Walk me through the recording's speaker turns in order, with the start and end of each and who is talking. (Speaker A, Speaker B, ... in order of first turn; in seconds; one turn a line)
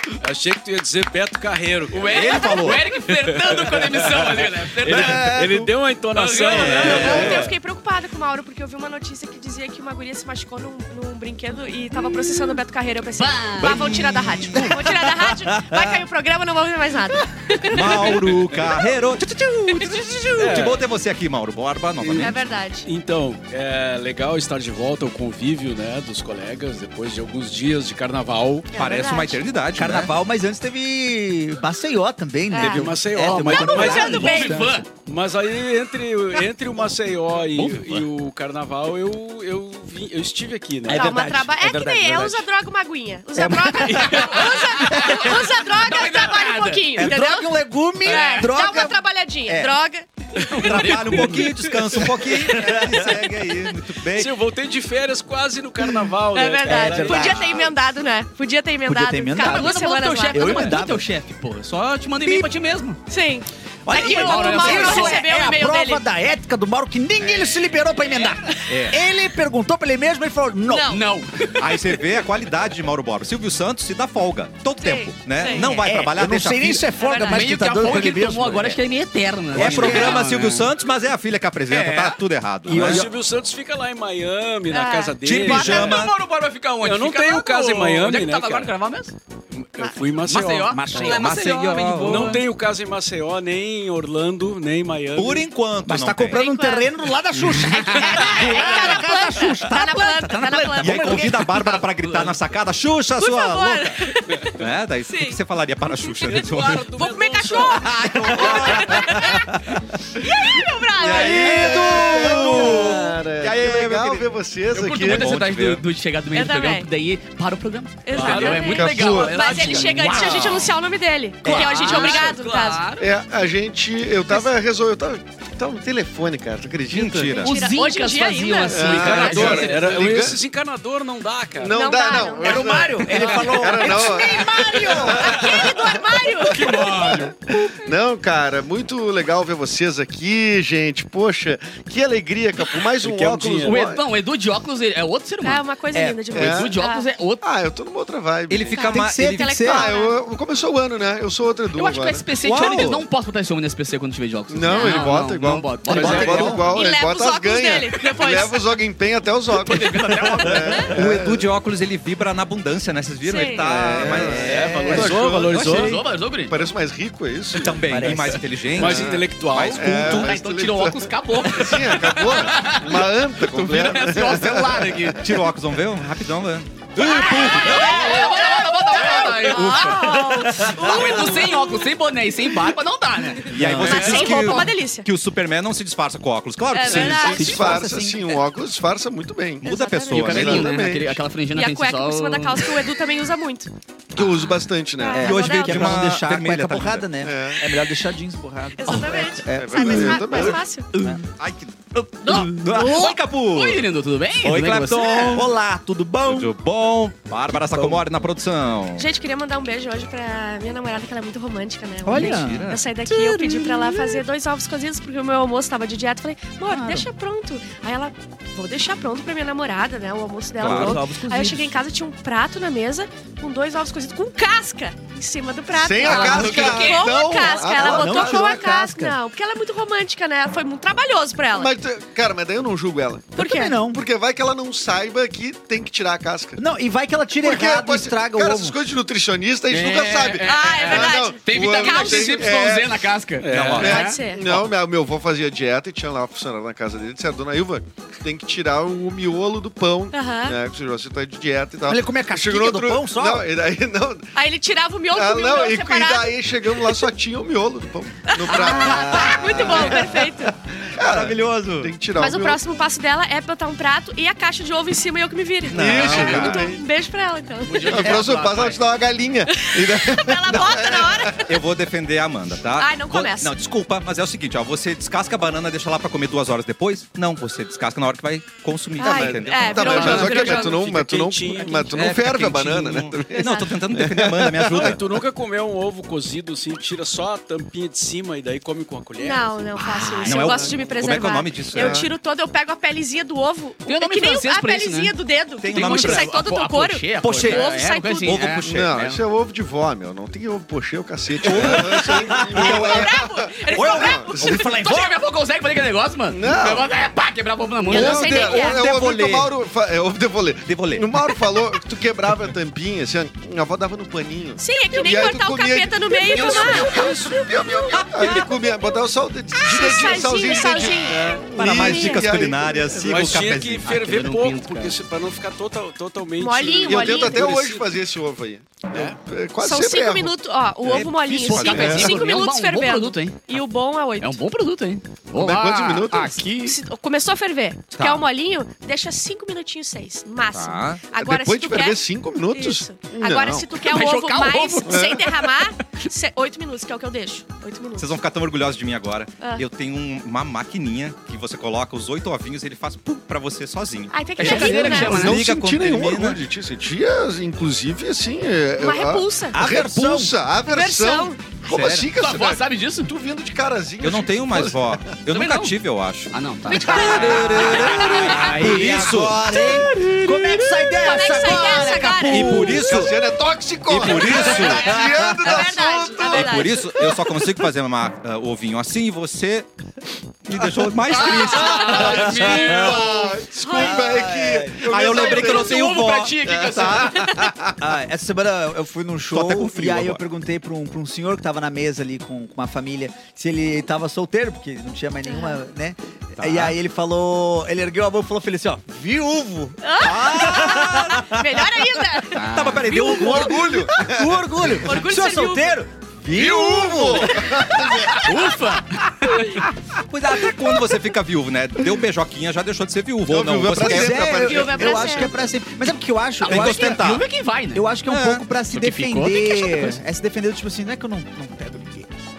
Speaker A: 0.2-7.5
Speaker B: 1.9-5.4
Speaker C: 2.0-2.9
Speaker D: 2.3-2.7
Speaker E: 4.9-5.7
Speaker B: 6.1-7.4
Speaker C: 6.5-7.5
Speaker D: 6.8-18.4
Speaker B: 13.2-14.0
Speaker C: 13.6-15.0
Speaker E: 14.5-14.9
Speaker C: 17.6-22.4
Speaker A: 18.3-18.6
Speaker D: 19.7-20.0
Speaker A: 20.4-20.9
Speaker A: 22.0-28.7
Speaker D: 22.2-22.9
Speaker D: 28.7-29.4
Speaker C: 28.7-30.1
Speaker E: 29.8-34.8
Speaker D: 32.5-32.9
Speaker A: 32.5-41.2
Speaker B: 33.1-34.9
Speaker D: 33.6-34.6
Speaker E: 37.6-37.9
Speaker E: 40.9-42.5
Speaker D: 40.9-47.5
Speaker E: 43.4-45.4
Speaker B: 43.7-46.8
Speaker E: 47.0-49.8
Speaker D: 48.0-50.1
Speaker B: 48.1-48.5
Speaker B: 50.4-53.0
Speaker C: 50.4-54.4
Speaker A: 50.8-51.2
Speaker E: 52.5-53.1
Speaker A: 54.1-57.7
Speaker D: 56.3-60.7
Speaker E: 56.7-57.6
Speaker E: 58.9-59.8
Speaker B: 59.4-63.0
Speaker E: 60.3-61.1
Speaker E: 62.2-62.5
Speaker D: 63.1-66.0
Speaker E: 63.9-71.0
Speaker B: 63.9-65.2
Speaker C: 68.7-69.0
Speaker D: 70.7-71.0
Speaker B: 70.9-72.0
Speaker C: 71.6-76.9
Speaker D: 74.8-75.8
Speaker E: 75.6-78.8
Speaker D: 76.9-77.5
Speaker B: 77.2-80.7
Speaker E: 79.5-80.3
Speaker C: 79.5-83.1
Speaker B: 81.7-82.2
Speaker E: 82.7-83.1
Speaker A: 82.7-86.1
Speaker D: 84.7-85.9
Speaker C: 85.2-86.1
Speaker B: 85.4-89.1
Speaker A: 86.8-88.7
Speaker A: 89.5-90.8
Speaker B: 90.2-92.4
Speaker E: 90.4-92.3
Speaker C: 91.0-92.3
Speaker A: 92.0-95.5
Speaker C: 95.2-96.4
Speaker E: 95.9-101.6
Speaker D: 96.3-96.9
Speaker B: 97.5-99.0
Speaker D: 97.9-101.3
Speaker C: 100.8-104.1
Speaker B: 101.6-102.5
Speaker D: 103.2-109.6
Speaker C: 104.6-106.9
Speaker B: 106.3-108.9
Speaker A: 107.1-107.7
Speaker C: 107.8-109.6
Speaker F: 108.3-108.7
Speaker D: 110.2-112.0
Speaker C: 111.0-115.8
Speaker F: 111.2-115.4
Speaker E: 111.5-112.9
Speaker B: 114.7-120.3
Speaker D: 116.3-116.9
Speaker D: 118.0-122.9
Speaker A: 118.1-120.2
Speaker F: 118.7-120.0
Speaker C: 120.0-120.7
Speaker E: 121.5-122.2
Speaker B: 121.5-123.1
Speaker F: 123.0-127.5
Speaker C: 126.9-127.5
Speaker D: 127.3-129.7
Speaker B: 127.4-130.0
Speaker F: 128.7-130.4
Speaker A: 128.8-131.9
Speaker F: 131.6-136.0
Speaker D: 131.7-132.8
Speaker E: 132.4-135.6
Speaker B: 133.1-133.9
Speaker D: 135.1-137.9
Speaker B: 136.5-137.3
Speaker A: 136.5-137.3
Speaker F: 136.6-144.0
Speaker A: 143.0-143.8
Speaker B: 143.6-147.4
Speaker D: 145.4-147.1
Speaker F: 146.3-146.8
Speaker F: 147.4-149.0
Speaker C: 148.5-149.7
Speaker D: 148.7-150.2
Speaker E: 148.9-149.9
Speaker F: 149.7-152.3
Speaker B: 151.7-156.7
Speaker C: 152.4-153.0
Speaker F: 154.5-161.5
Speaker D: 154.7-155.2
Speaker A: 155.9-156.6
Speaker E: 155.9-156.6
Speaker D: 156.4-158.6
Speaker B: 159.5-160.8
Speaker C: 160.9-164.7
Speaker D: 163.2-163.7
Speaker F: 163.6-165.9
Speaker E: 164.0-165.1
Speaker A: 164.4-165.9
Speaker C: 165.5-166.1
Speaker B: 165.7-166.6
Speaker F: 166.5-168.1
Speaker C: 167.6-170.3
Speaker E: 167.9-168.4
Speaker A: 168.8-170.0
Speaker F: 168.8-175.1
Speaker B: 169.8-175.3
Speaker C: 175.2-177.3
Speaker B: 176.9-184.6
Speaker D: 177.0-181.9
Speaker E: 180.0-180.8
Speaker D: 183.4-185.1
Speaker C: 183.5-187.7
Speaker E: 183.6-184.0
Speaker D: 186.7-187.8
Speaker F: 186.9-191.2
Speaker E: 186.9-188.4
Speaker D: 189.6-190.4
Speaker C: 189.7-190.8
Speaker B: 190.1-192.7
Speaker D: 191.5-193.7
Speaker F: 194.2-195.3
Speaker C: 194.2-194.5
Speaker D: 195.0-195.9
Speaker E: 195.1-201.2
Speaker C: 195.2-197.1
Speaker F: 197.2-197.6
Speaker D: 198.8-200.9
Speaker F: 199.5-200.6
Speaker C: 201.2-203.9
Speaker D: 202.2-202.9
Speaker B: 202.3-205.5
Speaker C: 204.4-205.5
Speaker E: 204.8-206.5
Speaker D: 205.1-205.4
Speaker C: 206.2-209.1
Speaker E: 207.5-208.0
Speaker D: 209.0-231.7
Speaker E: 212.0-212.7
Speaker C: 212.1-212.8
Speaker E: 216.7-217.1
Speaker C: 220.6-221.1
Speaker E: 220.6-221.7
Speaker F: 225.7-228.7
Speaker B: 226.0-227.1
Speaker C: 226.3-226.9
Speaker E: 227.7-229.2
Speaker F: 231.6-236.6
Speaker D: 233.4-233.8
Speaker E: 233.4-234.0
Speaker E: 236.6-238.8
Speaker F: 237.4-243.1
Speaker B: 239.7-244.2
Speaker D: 240.4-242.6
Speaker A: 243.4-244.0
Speaker C: 243.5-244.7
Speaker D: 243.8-244.4
Speaker F: 243.8-254.3
Speaker D: 250.1-250.6
Speaker E: 251.9-253.5
Speaker D: 254.3-257.1
Speaker F: 255.1-262.6
Speaker D: 258.3-260.6
Speaker B: 258.5-258.8
Speaker E: 258.8-259.9
Speaker C: 261.0-261.9
Speaker D: 262.1-268.2
Speaker F: 265.7-266.8
Speaker C: 265.7-266.7
Speaker B: 266.1-266.3
Speaker B: 267.6-268.8
Speaker F: 267.9-271.5
Speaker D: 269.5-271.5
Speaker C: 271.5-280.4
Speaker D: 272.8-273.6
Speaker D: 279.0-280.9
Speaker F: 279.0-285.0
Speaker A: 279.9-282.1
Speaker C: 281.9-285.1
Speaker D: 283.3-283.7
Speaker A: 284.7-289.7
Speaker D: 289.2-298.6
Speaker B: 289.9-290.4
Speaker C: 290.0-292.1
Speaker F: 290.5-290.8
Speaker F: 291.7-292.1
Speaker B: 293.9-295.1
Speaker C: 295.6-296.3
Speaker B: 295.7-299.2
Speaker C: 297.2-297.7
Speaker C: 298.2-299.1
Speaker F: 298.6-304.7
Speaker C: 301.4-302.9
Speaker E: 301.5-302.9
Speaker D: 302.5-305.1
Speaker E: 303.7-305.1
Speaker B: 304.6-308.4
Speaker F: 306.3-306.9
Speaker F: 307.9-323.1
Speaker D: 307.9-308.9
Speaker C: 307.9-309.5
Speaker C: 310.7-311.5
Speaker D: 314.6-318.5
Speaker A: 316.3-317.4
Speaker C: 318.0-318.5
Speaker D: 319.6-322.3
Speaker C: 321.4-324.0
Speaker A: 323.0-328.0
Speaker B: 323.9-325.0
Speaker D: 326.4-327.6
Speaker F: 326.8-330.4
Speaker A: 328.9-329.2
Speaker D: 329.6-334.4
Speaker C: 330.9-332.3
Speaker B: 331.3-333.6
Speaker B: 334.2-336.8
Speaker F: 335.4-336.6
Speaker D: 336.6-348.2
Speaker C: 337.9-338.2
Speaker C: 340.5-341.1
Speaker F: 341.1-343.7
Speaker B: 343.9-345.5
Speaker F: 344.9-345.2
Speaker C: 348.0-356.4
Speaker D: 349.4-349.6
Speaker D: 354.1-355.4
Speaker B: 354.4-355.4
Speaker F: 354.5-365.0
Speaker D: 358.8-359.6
Speaker E: 359.5-360.3
Speaker D: 360.6-361.6
Speaker C: 361.7-362.1
Speaker B: 362.2-363.1
Speaker C: 364.0-369.9
Speaker B: 365.3-365.8
Speaker B: 366.3-369.2
Speaker F: 366.7-369.8
Speaker D: 366.8-368.8
Speaker E: 367.0-373.1
Speaker D: 369.5-372.8
Speaker C: 372.3-373.1
Speaker F: 372.4-377.4
Speaker C: 373.9-375.2
Speaker D: 374.1-377.1
Speaker C: 376.3-379.7
Speaker C: 380.4-383.1
Speaker B: 381.0-383.3
Speaker D: 381.6-381.9
Speaker F: 381.7-385.9
Speaker D: 383.6-384.2
Speaker E: 383.7-384.9
Speaker C: 384.8-387.2
Speaker B: 385.1-387.3
Speaker F: 386.5-387.8
Speaker D: 387.1-387.4
Speaker E: 387.8-399.8
Speaker C: 389.3-390.2
Speaker D: 395.3-395.6
Speaker C: 396.4-396.8
Speaker D: 399.8-403.9
Speaker C: 400.0-401.4
Speaker E: 400.5-401.2
Speaker B: 402.4-403.0
Speaker C: 402.4-403.6
Speaker F: 403.0-404.8
Speaker E: 404.0-407.3
Speaker D: 404.8-405.8
Speaker F: 406.3-408.5
Speaker C: 406.8-407.3
Speaker D: 407.4-408.2
Speaker B: 408.2-409.2
Speaker D: 409.2-409.6
Speaker C: 410.0-414.4
Speaker F: 413.3-415.5
Speaker E: 413.7-417.2
Speaker D: 414.4-415.5
Speaker B: 416.4-417.9
Speaker C: 416.4-417.3
Speaker E: 417.7-422.1
Speaker C: 418.1-418.4
Speaker B: 418.7-420.0